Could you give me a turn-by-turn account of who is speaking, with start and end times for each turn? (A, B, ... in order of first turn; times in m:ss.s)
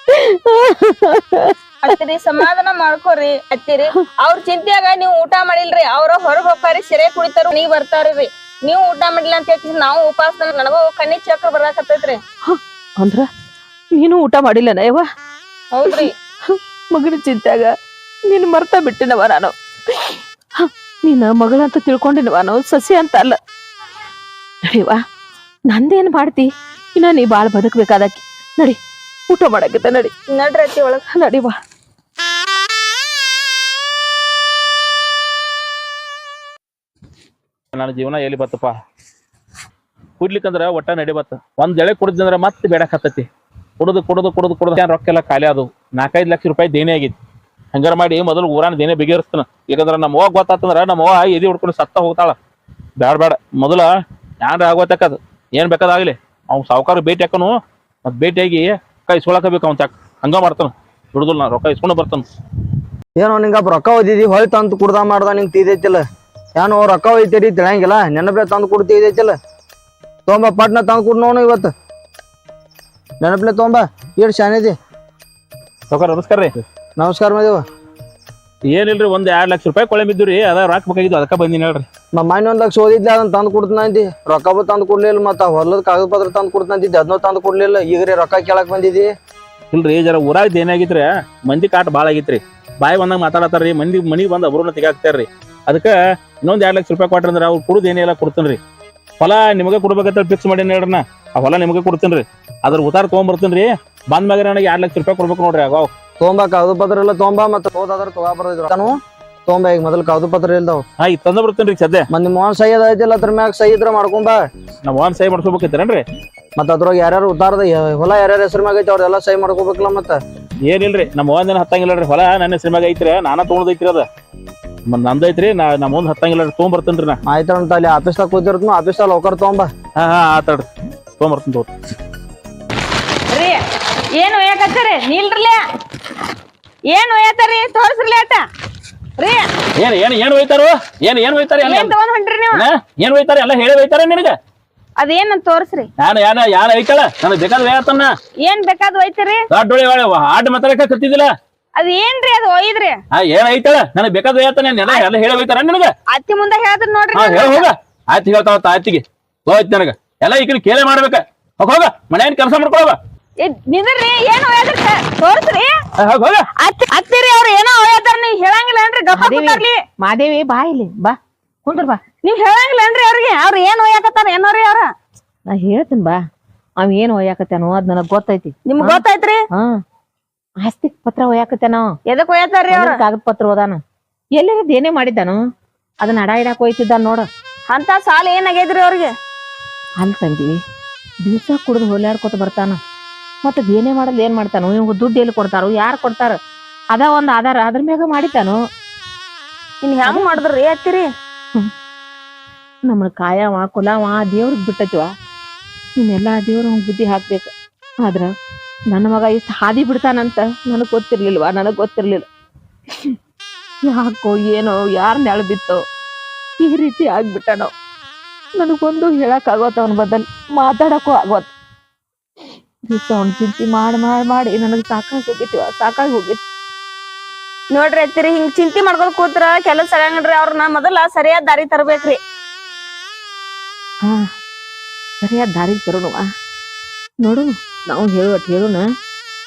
0:00.2-0:01.5 A
0:01.8-0:12.2 B
0:12.5-0:13.3 A
0:13.9-0:15.0 A
0:15.7-0:16.1 B
0:16.9-0:17.7 A
0:18.3-0:23.4 A
0:24.7-0:25.0 A
0:25.7-0:28.8 A
0:29.3-0:30.1 A
0:30.3-0:31.0 B
0:31.1-0:31.5 A
0:37.7-0:38.7 C
0:40.2-0:43.3 C
0:43.8-0:47.2 C
0:47.7-0:52.4 C
0:53.0-0:53.9 C
0:54.4-1:02.2 C
1:03.2-1:06.0 D
1:06.6-1:09.4 D
1:10.3-1:11.7 D
1:13.2-1:14.7 D
1:15.9-1:16.6 C
1:17.0-1:17.6 D
1:18.7-1:21.8 C
1:22.1-1:29.1 D
1:29.7-1:38.6 C
1:39.2-1:45.9 C
1:46.2-1:50.8 D
1:51.0-1:52.0 C
1:52.1-1:54.4 D
1:54.8-1:56.0 C
1:56.6-2:00.2 D
2:00.6-2:04.1 C
2:04.9-2:07.2 C
2:07.3-2:09.7 D
2:10.0-2:10.6 C
2:11.2-2:11.7 C
2:13.3-2:13.6 B
2:14.2-2:15.6 B
2:16.9-2:18.4 B
2:19.2-2:19.5 B
2:19.8-2:21.9 C
2:21.6-2:22.6 B
2:22.5-2:24.3 C
2:25.0-2:25.9 B
2:26.0-2:28.1 C
2:28.4-2:29.4 B
2:29.5-2:31.3 C
2:31.8-2:33.0 B
2:33.2-2:35.9 C
2:36.1-2:37.7 B
2:37.1-2:43.0 C
2:43.4-2:45.7 B
2:46.0-2:46.4 C
2:46.6-2:49.8 B
2:49.2-2:52.0 A
2:52.2-2:54.9 B
2:55.5-2:56.2 A
2:56.8-2:59.0 A
2:58.6-2:59.4 B
3:00.6-3:01.9 A
3:02.1-3:03.0 B
3:02.7-3:03.8 A
3:04.4-3:05.4 A
3:06.0-3:07.2 A
3:07.7-3:09.1 B
3:10.0-3:10.5 A
3:11.2-3:12.8 A
3:13.4-3:16.4 A
3:16.9-3:18.6 A
3:19.8-3:21.1 B
3:20.1-3:20.4 A
3:22.9-3:25.1 A
3:26.0-3:27.5 A
3:28.0-3:28.3 A
3:28.9-3:32.2 A
3:33.8-3:35.8 A
3:36.6-3:37.7 A
3:38.6-3:41.5 A
3:42.9-3:46.4 A
3:47.7-3:52.2 B
3:55.2-3:56.2 A
3:57.2-3:58.8 A